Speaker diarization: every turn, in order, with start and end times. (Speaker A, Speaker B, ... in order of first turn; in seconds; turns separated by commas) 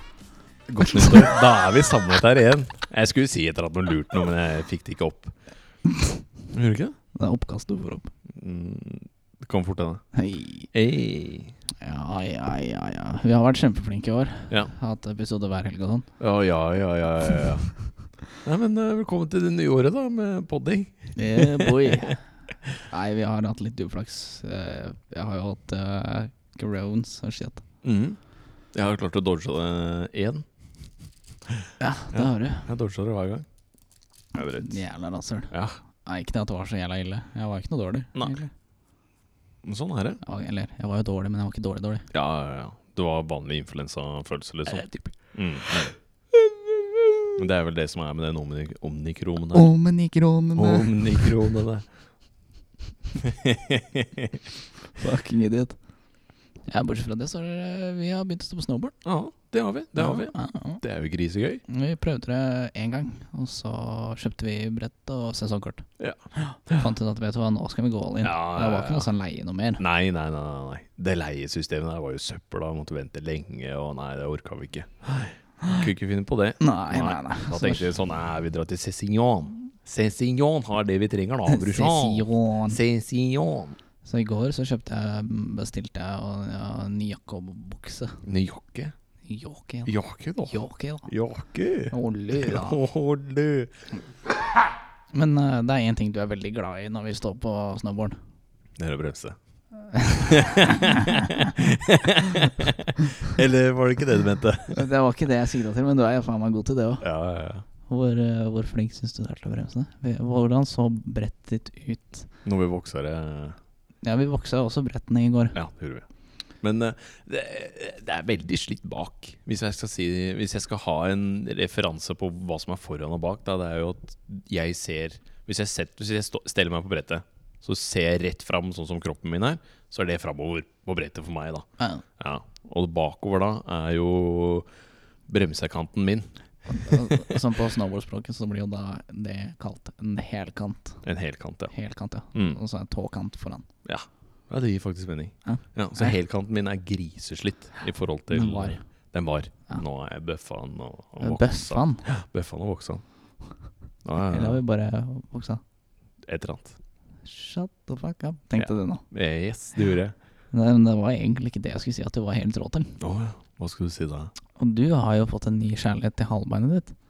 Speaker A: 0.7-5.4, Speaker B: 0.9-1.2, Speaker A: 6.5-7.0, Speaker B: 7.1-8.1, Speaker A: 8.3-10.0, Speaker B: 10.1-10.7, Speaker A: 10.7-11.5, Speaker B: 11.8-16.1, Speaker A: 16.2-22.1, Speaker B: 21.1-27.6, Speaker A: 27.8-28.2, Speaker A: 28.7-30.4, Speaker B: 31.8-32.7, Speaker A: 32.1-33.5, Speaker A: 34.3-34.8, Speaker B: 34.6-38.5, Speaker A: 35.5-35.8, Speaker A: 38.1-38.4, Speaker A: 39.6-40.2, Speaker B: 40.2-42.1, Speaker A: 42.1-45.9, Speaker B: 44.7-47.2, Speaker A: 47.4-49.8, Speaker B: 49.5-51.4, Speaker A: 50.5-51.9, Speaker A: 53.2-54.3, Speaker B: 54.9-55.8, Speaker B: 56.6-59.0, Speaker A: 59.0-61.6, Speaker B: 60.0-60.8, Speaker B: 61.7-69.8, Speaker A: 66.0-66.8, Speaker A: 68.2-69.1, Speaker A: 69.8-83.8, Speaker B: 76.6-77.9, Speaker B: 81.5-82.8, Speaker B: 84.0-88.2, Speaker A: 88.2-88.9, Speaker B: 89.2-91.1, Speaker A: 89.8-93.7, Speaker B: 91.9-92.8, Speaker B: 95.1-98.2, Speaker A: 98.8-99.3, Speaker B: 99.9-101.1, Speaker A: 100.3-104.9, Speaker B: 104.7-107.0, Speaker A: 107.0-107.6, Speaker B: 107.9-112.3, Speaker A: 112.4-113.6, Speaker B: 114.0-115.5, Speaker A: 115.5-116.0, Speaker A: 116.6-131.7, Speaker B: 131.8-132.0, Speaker A: 132.2-134.7, Speaker A: 135.3-137.2, Speaker B: 136.7-141.1, Speaker A: 141.0-142.6, Speaker B: 141.7-143.7, Speaker A: 143.8-154.6, Speaker B: 145.4-146.2, Speaker B: 148.3-148.9, Speaker B: 151.2-152.1, Speaker B: 154.3-155.6, Speaker A: 156.2-156.8, Speaker B: 157.2-159.1, Speaker A: 158.6-160.1, Speaker B: 160.5-163.0, Speaker A: 163.0-164.3, Speaker B: 164.6-166.9